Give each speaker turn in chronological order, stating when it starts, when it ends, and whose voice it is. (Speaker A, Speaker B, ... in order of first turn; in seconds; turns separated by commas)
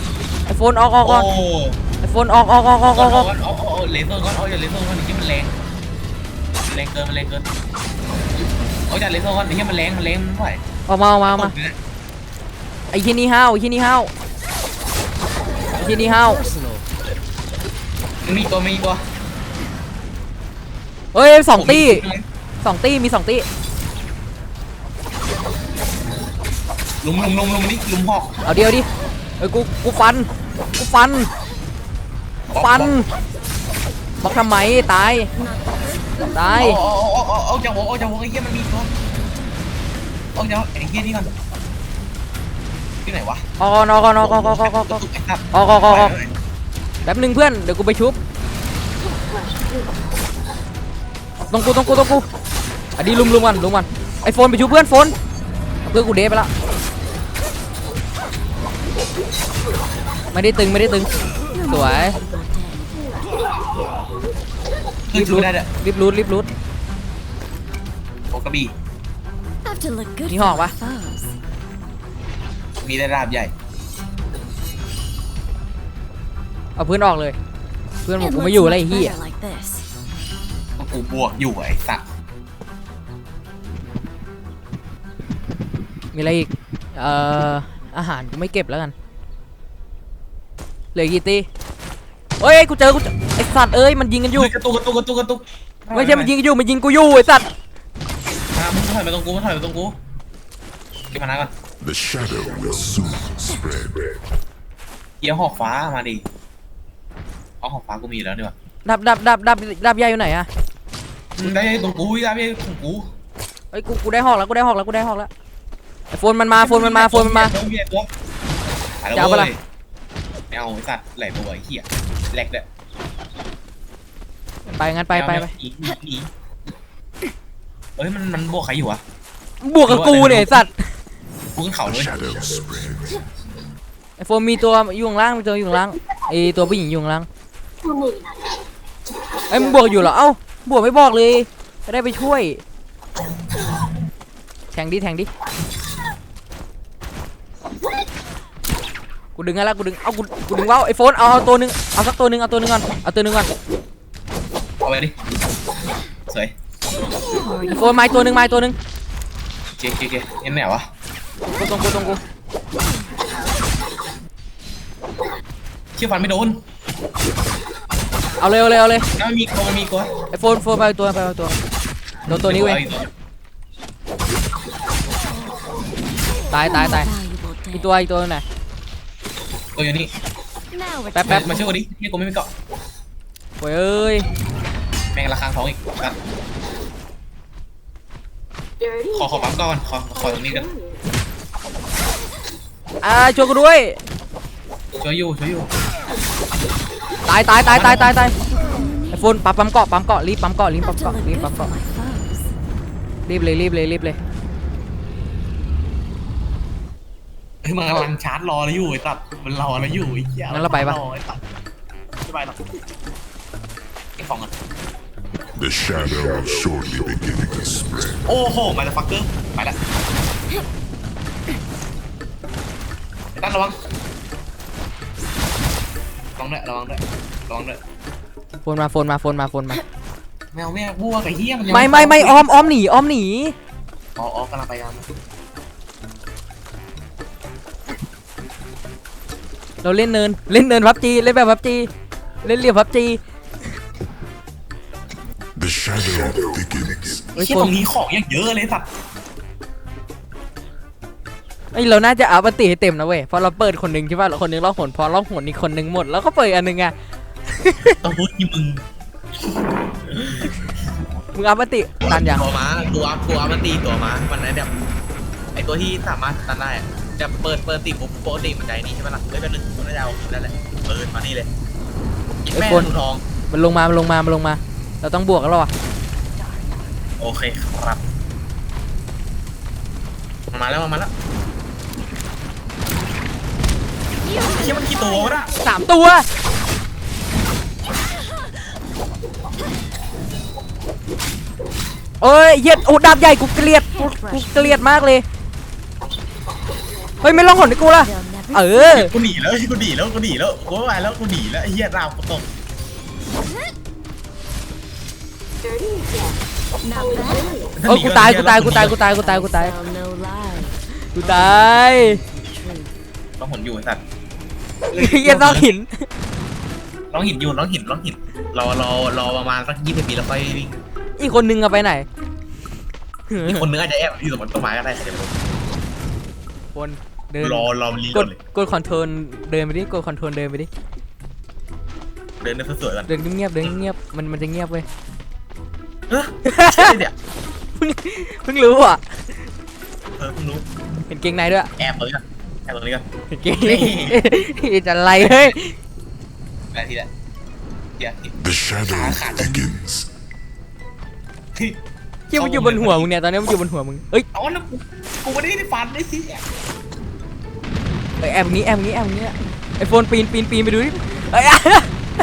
Speaker A: 0.5-1.3, Speaker B: 1.0-1.8, Speaker A: 2.0-3.3, Speaker B: 2.9-5.5, Speaker B: 6.6-7.4, Speaker B: 8.9-10.6, Speaker A: 10.9-11.5, Speaker B: 11.3-11.8, Speaker A: 12.9-14.1, Speaker A: 15.8-16.4, Speaker B: 18.2-19.0, Speaker A: 21.1-22.0, Speaker B: 21.5-22.2, Speaker A: 22.6-23.5, Speaker B: 27.0-28.3, Speaker A: 28.4-28.9, Speaker A: 29.4-31.3, Speaker B: 32.5-33.0, Speaker A: 32.5-33.1, Speaker A: 34.2-35.3, Speaker C: 35.3-36.6, Speaker A: 36.2-36.8, Speaker B: 36.5-38.9, Speaker B: 40.3-41.3, Speaker B: 43.0-43.4, Speaker A: 43.6-46.1, Speaker B: 44.2-46.3, Speaker A: 47.0-48.2, Speaker A: 51.5-52.2, Speaker A: 53.0-55.1, Speaker A: 55.8-56.5, Speaker A: 60.3-62.1, Speaker C: 61.5-63.2, Speaker B: 65.1-65.7, Speaker A: 65.1-66.5, Speaker B: 68.3-68.7, Speaker C: 69.6-71.3, Speaker A: 70.3-70.7, Speaker B: 72.8-73.5, Speaker A: 76.8-77.3, Speaker A: 78.0-79.2, Speaker C: 78.1-79.8, Speaker B: 80.8-82.0, Speaker A: 86.1-88.9, Speaker A: 90.9-91.5, Speaker A: 92.4-94.5, Speaker B: 94.3-96.3, Speaker A: 95.9-97.5, Speaker B: 98.5-100.0, Speaker B: 101.1-101.5, Speaker D: 101.8-104.2, Speaker B: 105.2-106.2, Speaker B: 107.6-108.5, Speaker A: 108.8-110.5, Speaker B: 111.3-113.1, Speaker A: 113.7-115.3, Speaker A: 116.1-117.5, Speaker B: 116.6-118.1, Speaker B: 119.0-119.6, Speaker A: 119.1-119.5, Speaker B: 120.5-122.6, Speaker A: 124.7-125.5, Speaker B: 125.1-126.3, Speaker B: 128.0-129.0, Speaker A: 129.6-130.9, Speaker B: 129.8-130.7, Speaker B: 131.5-132.3, Speaker D: 131.8-133.2, Speaker A: 134.2-137.3, Speaker E: 137.9-138.4, Speaker A: 139.5-142.6, Speaker A: 144.7-145.3, Speaker A: 149.3-153.5, Speaker B: 154.8-155.1, Speaker B: 156.3-156.5, Speaker C: 157.2-158.3, Speaker A: 157.7-158.8, Speaker B: 159.8-160.9, Speaker A: 161.4-162.2, Speaker B: 165.9-166.6, Speaker A: 168.4-169.1, Speaker B: 169.2-170.1, Speaker A: 170.3-171.6, Speaker A: 172.3-172.8, Speaker B: 172.3-173.1, Speaker A: 176.5-177.1, Speaker C: 176.6-177.9, Speaker A: 177.7-178.4, Speaker B: 179.8-180.1, Speaker C: 180.7-181.7, Speaker A: 181.1-181.5, Speaker B: 181.2-182.5, Speaker A: 183.6-184.3, Speaker B: 185.1-186.2, Speaker E: 188.8-189.4, Speaker B: 189.1-190.7, Speaker E: 190.3-190.9, Speaker A: 193.0-194.0, Speaker B: 194.9-195.7, Speaker A: 197.2-198.3, Speaker B: 197.6-198.3, Speaker C: 198.5-199.2, Speaker A: 199.1-201.7, Speaker C: 200.8-202.5, Speaker A: 203.2-204.2, Speaker B: 207.6-211.4, Speaker A: 210.5-211.0, Speaker B: 212.2-212.6, Speaker B: 214.2-214.5, Speaker D: 215.5-218.2, Speaker B: 218.2-219.8, Speaker B: 223.3-223.8, Speaker B: 226.4-227.8, Speaker A: 228.6-229.8, Speaker B: 230.5-232.4, Speaker A: 231.7-233.5, Speaker B: 234.2-235.1, Speaker A: 239.8-241.9, Speaker A: 242.4-243.2, Speaker D: 245.5-247.2, Speaker B: 247.3-248.9, Speaker A: 247.3-247.7, Speaker A: 251.7-256.9, Speaker A: 257.5-257.9, Speaker B: 258.0-258.8, Speaker B: 260.1-260.5, Speaker A: 261.3-262.5, Speaker B: 262.0-264.7, Speaker B: 265.5-271.5, Speaker B: 272.4-273.2, Speaker A: 272.5-272.9, Speaker A: 273.5-275.7, Speaker B: 277.2-278.0, Speaker B: 280.5-281.1, Speaker C: 284.2-285.5, Speaker B: 284.4-285.6, Speaker A: 285.5-286.2, Speaker A: 292.2-295.2, Speaker C: 293.6-294.8, Speaker A: 297.2-299.1, Speaker C: 297.5-299.0, Speaker B: 298.8-302.5, Speaker E: 305.6-306.4, Speaker C: 306.8-307.7, Speaker B: 307.8-309.0, Speaker A: 307.8-309.7, Speaker C: 309.0-311.6, Speaker A: 311.1-312.2, Speaker C: 312.4-312.9, Speaker B: 313.4-314.0, Speaker B: 314.9-315.8, Speaker A: 314.9-316.0, Speaker B: 317.1-320.8, Speaker A: 321.2-322.1, Speaker A: 323.3-323.6, Speaker B: 323.4-325.3, Speaker A: 326.7-330.7, Speaker B: 327.4-328.4, Speaker B: 332.4-333.1, Speaker A: 333.1-334.8, Speaker B: 336.1-337.1, Speaker A: 336.4-337.0, Speaker A: 337.8-339.2, Speaker B: 340.2-340.6, Speaker A: 341.1-341.7, Speaker B: 341.8-343.1, Speaker A: 343.3-345.7, Speaker B: 343.6-344.2, Speaker B: 345.2-345.5, Speaker B: 346.7-347.1, Speaker B: 348.0-348.3, Speaker D: 348.3-350.1, Speaker B: 348.9-349.7, Speaker A: 352.3-354.3, Speaker B: 352.3-353.1, Speaker B: 354.3-356.4, Speaker A: 358.2-361.9